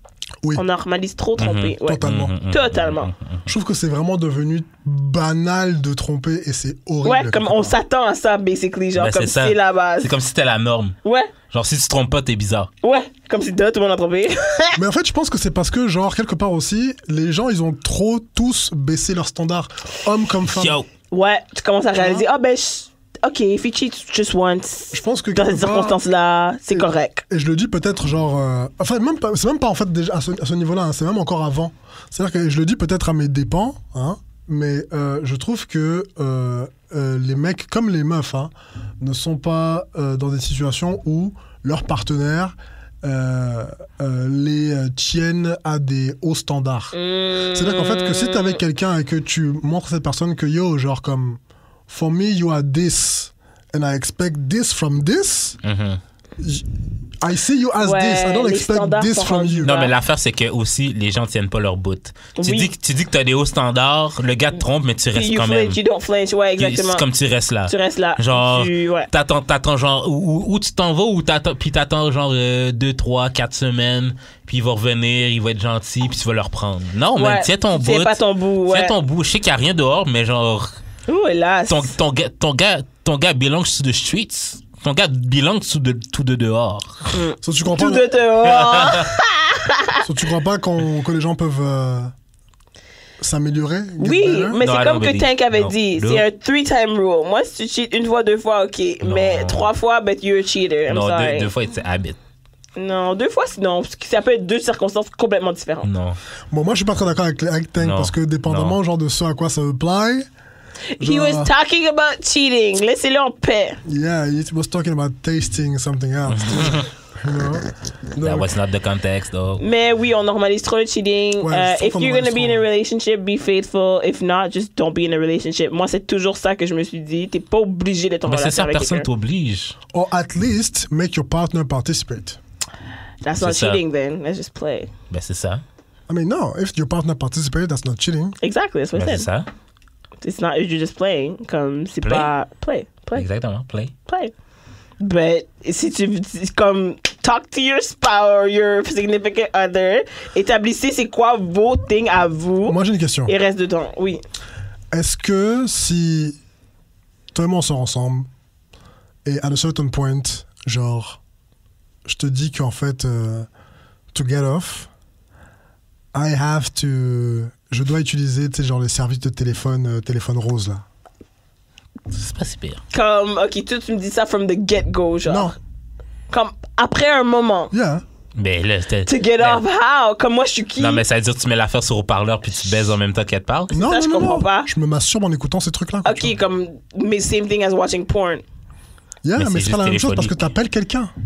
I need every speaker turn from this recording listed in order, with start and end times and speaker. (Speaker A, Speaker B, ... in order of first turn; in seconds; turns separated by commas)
Speaker A: 0.5-3.1, Speaker B: 1.4-3.5, Speaker C: 1.8-2.3, Speaker C: 3.5-7.8, Speaker A: 7.0-10.1, Speaker B: 8.9-10.9, Speaker A: 11.0-11.3, Speaker B: 11.5-12.7, Speaker A: 12.8-14.8, Speaker C: 14.8-20.8, Speaker B: 20.5-20.9, Speaker A: 21.1-27.2, Speaker C: 24.9-26.0, Speaker C: 26.7-46.9, Speaker A: 46.9-48.6, Speaker C: 47.5-55.6, Speaker B: 55.6-56.0, Speaker C: 56.4-56.7, Speaker C: 57.2-59.7, Speaker A: 57.8-59.9, Speaker B: 59.6-65.8, Speaker A: 62.4-62.7, Speaker A: 65.1-67.0, Speaker B: 66.6-80.8, Speaker A: 67.7-69.1, Speaker A: 77.2-78.9, Speaker A: 81.1-81.9, Speaker B: 81.7-87.1, Speaker A: 87.1-90.0, Speaker C: 87.4-88.1, Speaker B: 88.4-89.1, Speaker C: 90.0-92.1, Speaker C: 93.2-94.6, Speaker A: 94.0-101.5, Speaker B: 94.6-96.2, Speaker B: 99.0-99.7, Speaker B: 100.9-102.2, Speaker A: 102.8-105.9, Speaker B: 105.8-106.2, Speaker C: 106.5-110.3, Speaker B: 107.8-108.8, Speaker A: 111.0-113.8, Speaker C: 111.0-111.5, Speaker C: 113.8-118.5, Speaker B: 116.3-116.9, Speaker B: 118.2-119.6, Speaker A: 119.6-129.1, Speaker C: 121.4-122.6, Speaker B: 128.3-129.8, Speaker C: 129.9-132.4, Speaker A: 133.2-134.9, Speaker B: 133.4-133.8, Speaker B: 135.1-135.6, Speaker C: 136.1-138.4, Speaker A: 138.4-139.3, Speaker B: 138.9-139.5, Speaker A: 140.2-143.2, Speaker B: 142.0-142.3, Speaker B: 143.1-143.9, Speaker A: 144.1-144.3, Speaker A: 145.0-154.2, Speaker C: 152.7-153.3, Speaker C: 154.9-156.4, Speaker C: 157.3-158.3, Speaker C: 159.2-161.2, Speaker C: 162.1-163.5, Speaker C: 164.1-164.9, Speaker C: 166.1-170.8, Speaker B: 172.1-172.8, Speaker A: 172.9-175.6, Speaker C: 175.3-175.5, Speaker A: 176.3-177.7, Speaker C: 177.7-178.0, Speaker B: 178.3-179.6, Speaker A: 179.1-181.0, Speaker B: 180.8-183.7, Speaker A: 183.7-184.7, Speaker C: 183.7-186.3, Speaker A: 186.0-188.4, Speaker C: 189.2-191.1, Speaker B: 189.4-190.4